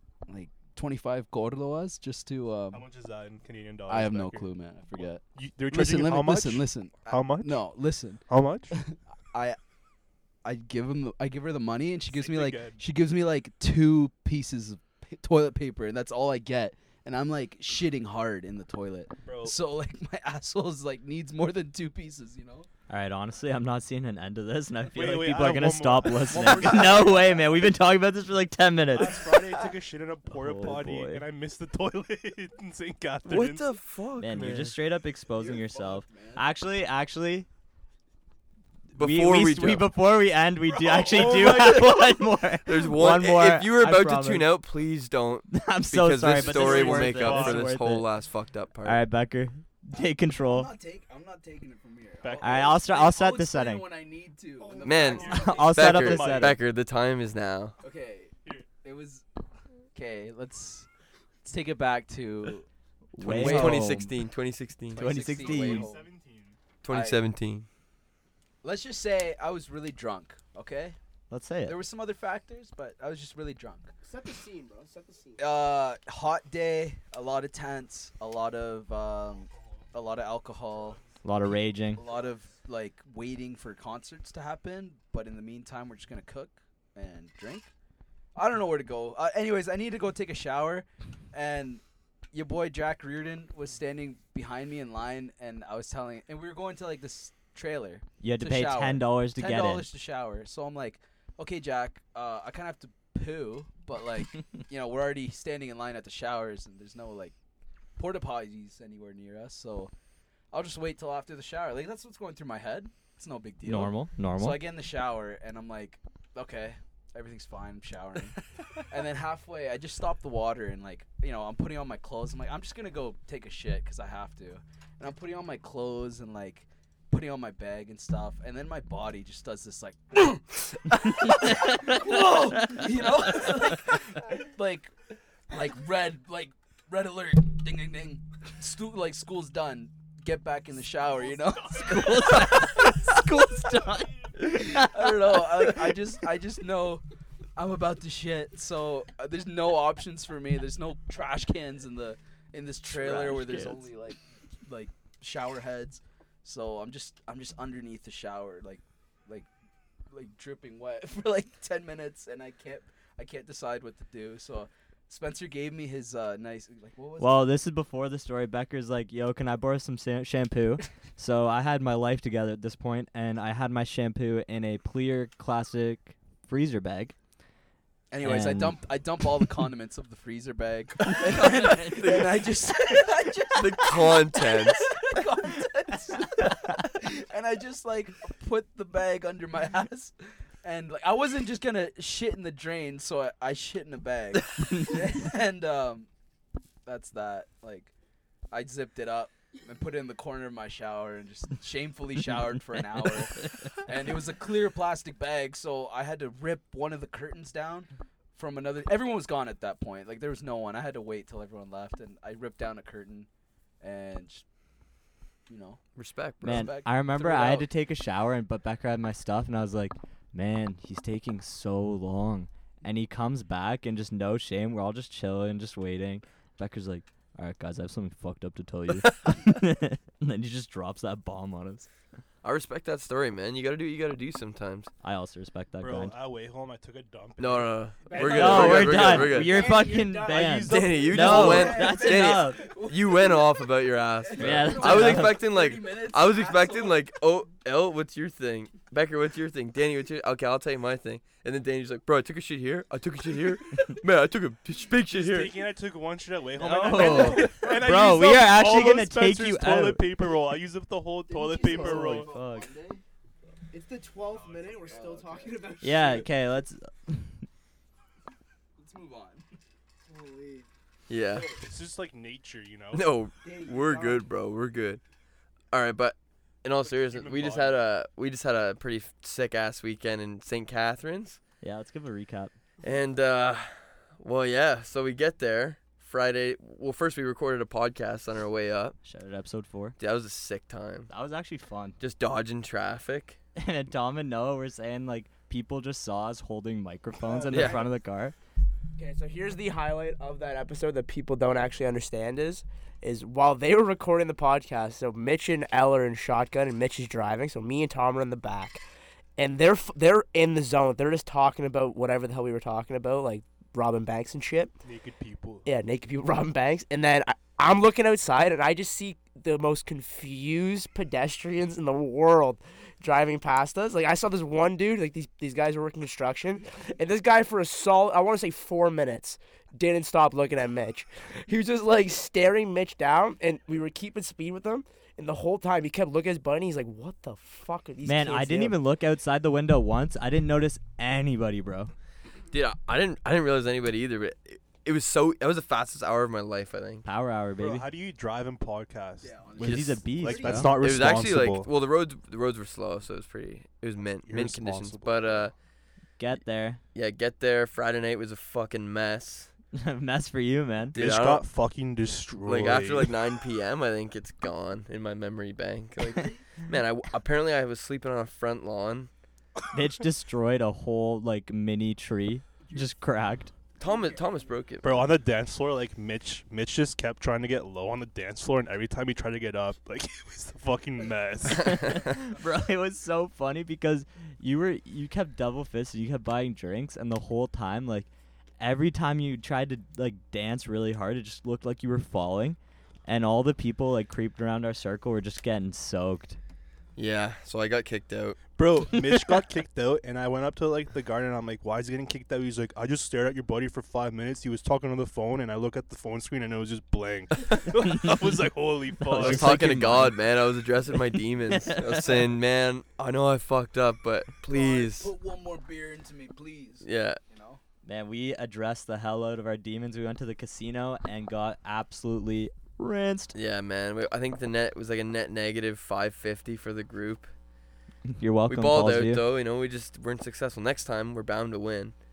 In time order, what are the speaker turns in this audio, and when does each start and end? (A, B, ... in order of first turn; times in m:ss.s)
0:00.3-0:02.8 A
0:02.7-0:04.5 B
0:03.9-0:09.6 A
0:05.4-0:07.6 B
0:08.3-0:08.7 B
0:10.4-0:22.7 A
0:12.1-0:12.8 B
0:19.2-0:19.6 B
0:22.9-0:29.3 C
0:24.9-0:27.2 B
0:26.3-0:27.4 A
0:28.9-0:33.6 B
0:30.3-0:31.2 C
0:33.2-0:34.8 D
0:34.2-0:37.5 C
0:35.3-0:36.4 A
0:38.9-0:39.9 D
0:38.9-0:44.5 C
0:40.8-0:42.2 B
0:42.6-0:49.0 D
0:45.5-0:48.1 C
0:46.4-0:47.7 B
0:48.8-0:50.7 C
0:50.4-0:55.7 A
0:52.2-0:52.9 B
0:52.4-0:53.9 C
0:54.7-0:56.6 B
0:54.8-0:57.8 D
0:55.2-0:56.6 C
0:57.8-0:59.2 A
0:59.9-1:00.9 A
1:01.4-1:02.7 A
1:03.1-1:04.1 C
1:03.2-1:05.1 D
1:03.2-1:04.1 A
1:04.9-1:06.1 A
1:05.0-1:05.9 C
1:05.2-1:06.6 B
1:06.8-1:07.7 D
1:06.9-1:07.2 A
1:08.6-1:11.0 A
1:11.3-1:11.8 C
1:11.6-1:13.9 A
1:14.0-1:15.4 E
1:15.4-1:21.0 A
1:20.8-1:21.2 B
1:21.2-1:22.0 C
1:22.0-1:27.7 A
1:28.3-1:47.3 A
1:38.2-1:39.9 C
1:48.0-1:49.9 A
1:50.5-2:14.9 A
1:53.6-1:54.6 C
2:11.1-2:13.6 C
2:15.5-2:23.3 A
2:21.8-2:25.0 C
2:24.4-2:27.0 A
2:27.6-2:39.5 A
2:32.9-2:33.8 C
2:40.1-2:47.4 A
2:47.2-2:57.1 C
2:58.1-3:16.1 A
2:58.2-2:58.8 C
3:01.0-3:02.5 D
3:03.5-3:05.0 D
3:14.7-3:14.9 C
3:16.8-3:17.9 A
3:18.5-3:33.3 A
3:33.8-3:34.4 A
3:35.5-3:35.8 A
3:36.0-3:36.7 D
3:36.4-3:51.9 C
3:36.4-3:37.7 A
3:48.9-3:49.3 D
3:52.4-3:54.9 D
3:55.0-3:56.1 C
3:55.8-4:01.8 B
3:57.4-3:59.7 D
3:58.2-4:02.6 C
4:00.6-4:15.5 D
4:01.1-4:03.6 A
4:04.2-4:07.0 A
4:04.4-4:05.4 C
4:04.4-4:04.7 B
4:15.1-4:22.3 B
4:16.6-4:20.1 C
4:17.0-4:17.5 A
4:21.3-4:23.0 A
4:21.6-4:22.7 C
4:24.3-4:25.0 B
4:24.5-4:26.2 A
4:24.8-4:26.2 E
4:25.8-4:27.4 C
4:28.8-4:29.5 A
4:30.1-4:30.6 A
4:31.1-4:31.6 D
4:31.5-4:33.1 B
4:32.9-4:35.0 D
4:33.5-4:34.2 A
4:35.7-4:41.4 D
4:36.8-4:37.8 B
4:41.6-4:42.5 C
4:42.8-4:49.0 D
4:49.0-4:49.9 C
4:50.0-4:51.1 D
4:51.1-4:52.0 C
4:52.0-4:53.4 D
4:53.6-4:58.3 C
4:57.3-4:57.8 E
4:57.5-4:57.8 D
4:59.0-5:08.8 E
5:09.4-5:14.8 E
5:14.8-5:15.6 B
5:15.6-5:38.8 E
5:38.0-5:41.9 C
5:42.5-5:47.0 D
5:47.0-5:47.9 C
5:47.6-5:51.7 B
5:49.2-5:50.8 A
5:49.6-5:50.7 C
5:50.8-5:55.5 D
5:54.2-5:55.5 B
5:56.2-5:56.8 C
5:56.9-5:59.5 D
5:59.7-6:01.0 C
6:00.9-6:01.4 D
6:00.9-6:03.1 B
6:02.4-6:09.1 D
6:09.7-6:13.5 C
6:13.8-6:15.1 D
6:14.8-6:22.1 B
6:21.6-6:36.4 C
6:37.0-6:38.4 D
6:38.6-6:49.8 B
6:47.8-6:48.2 C
6:49.0-6:50.2 C
6:49.2-6:55.1 D
6:51.5-6:52.2 C
6:54.4-6:57.6 A
6:56.8-6:57.2 D
6:57.8-7:03.3 C
7:03.3-7:07.3 D
7:08.2-7:09.2 C
7:08.5-7:11.9 D